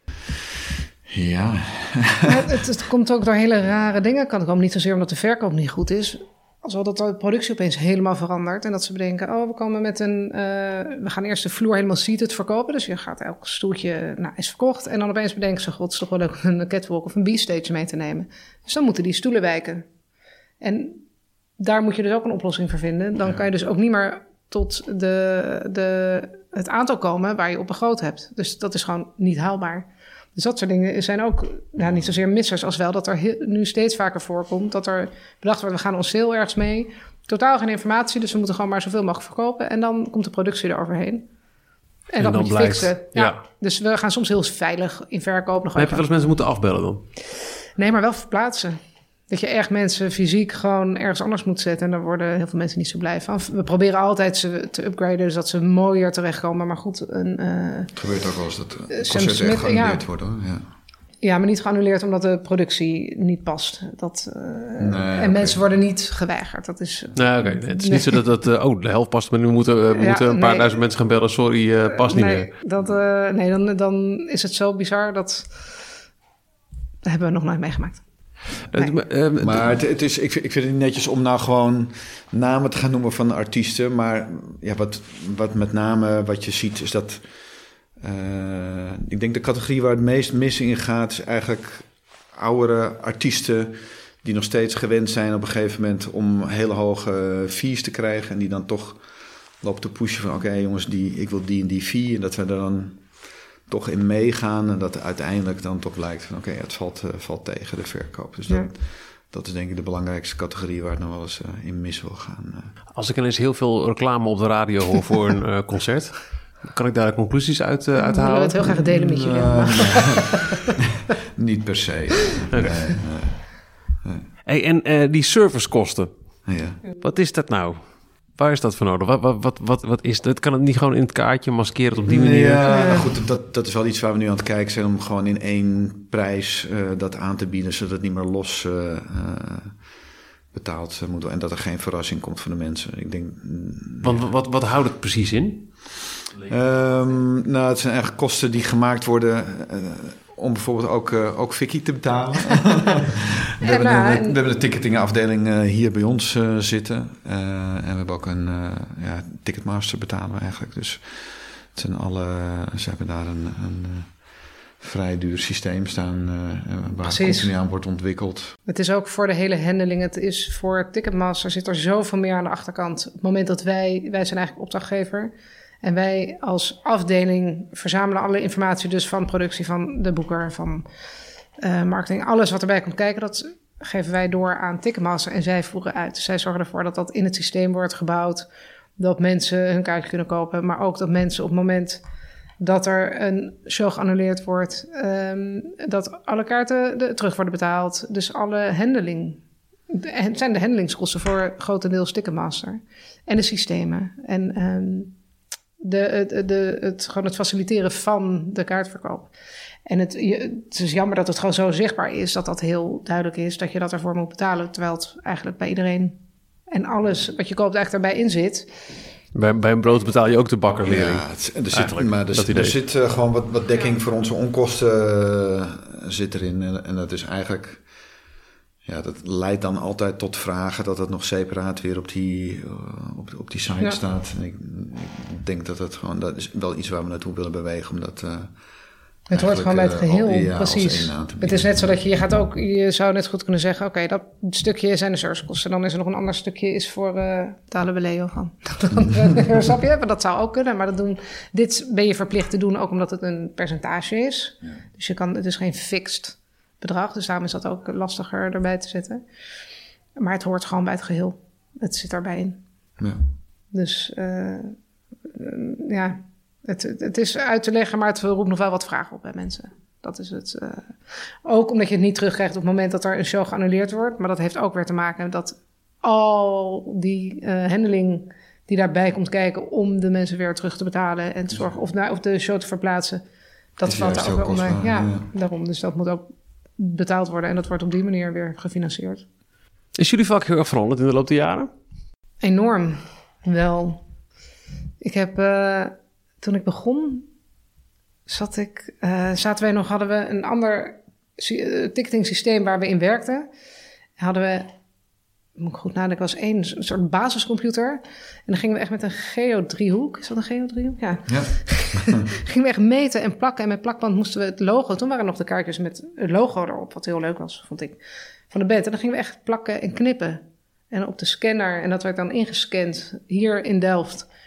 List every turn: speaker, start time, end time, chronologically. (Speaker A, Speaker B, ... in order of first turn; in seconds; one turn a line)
Speaker A: 1.1-2.6
Speaker B: 2.2-19.9
Speaker B: 20.6-21.0
Speaker B: 21.6-41.3
Speaker A: 31.8-32.1
Speaker B: 42.1-46.0
Speaker C: 42.2-43.4
Speaker C: 45.8-47.0
Speaker B: 47.6-48.8
Speaker B: 49.3-58.0
Speaker A: 58.0-60.6
Speaker B: 58.9-60.0
Speaker B: 61.2-68.2
Speaker A: 64.8-65.6
Speaker C: 67.1-72.5
Speaker B: 69.9-70.8
Speaker B: 71.9-75.7
Speaker B: 77.0-78.0
Speaker C: 78.7-79.7
Speaker A: 79.4-87.2
Speaker A: 88.0-99.0
Speaker A: 99.6-103.1
Speaker A: 103.7-112.7
Speaker C: 112.9-118.7
Speaker B: 118.0-120.7
Speaker A: 118.6-120.3
Speaker A: 121.0-124.3
Speaker C: 124.5-126.1
Speaker A: 126.5-126.8
Speaker C: 126.9-133.0
Speaker A: 132.1-139.8
Speaker B: 132.7-133.1
Speaker A: 140.5-144.2
Speaker C: 144.0-145.7
Speaker A: 146.4-164.2
Speaker B: 153.6-154.4
Speaker A: 164.8-168.6
Speaker B: 167.0-167.5
Speaker B: 168.7-180.8
Speaker B: 181.6-188.5
Speaker B: 189.0-192.0
Speaker B: 192.6-205.1
Speaker B: 205.8-209.3
Speaker B: 209.8-216.2
Speaker B: 216.7-218.7
Speaker C: 219.3-222.8
Speaker A: 220.8-227.8
Speaker A: 228.8-238.5
Speaker B: 239.3-259.2
Speaker A: 239.3-241.9
Speaker B: 260.2-262.6
Speaker A: 263.0-263.2
Speaker B: 263.7-264.8
Speaker B: 265.3-283.2
Speaker B: 283.8-289.2
Speaker A: 283.8-285.3
Speaker C: 289.9-291.7
Speaker B: 292.4-294.0
Speaker B: 295.0-297.2
Speaker B: 298.3-303.5
Speaker B: 304.2-304.7
Speaker B: 305.6-318.0
Speaker A: 311.3-312.2
Speaker B: 318.5-324.3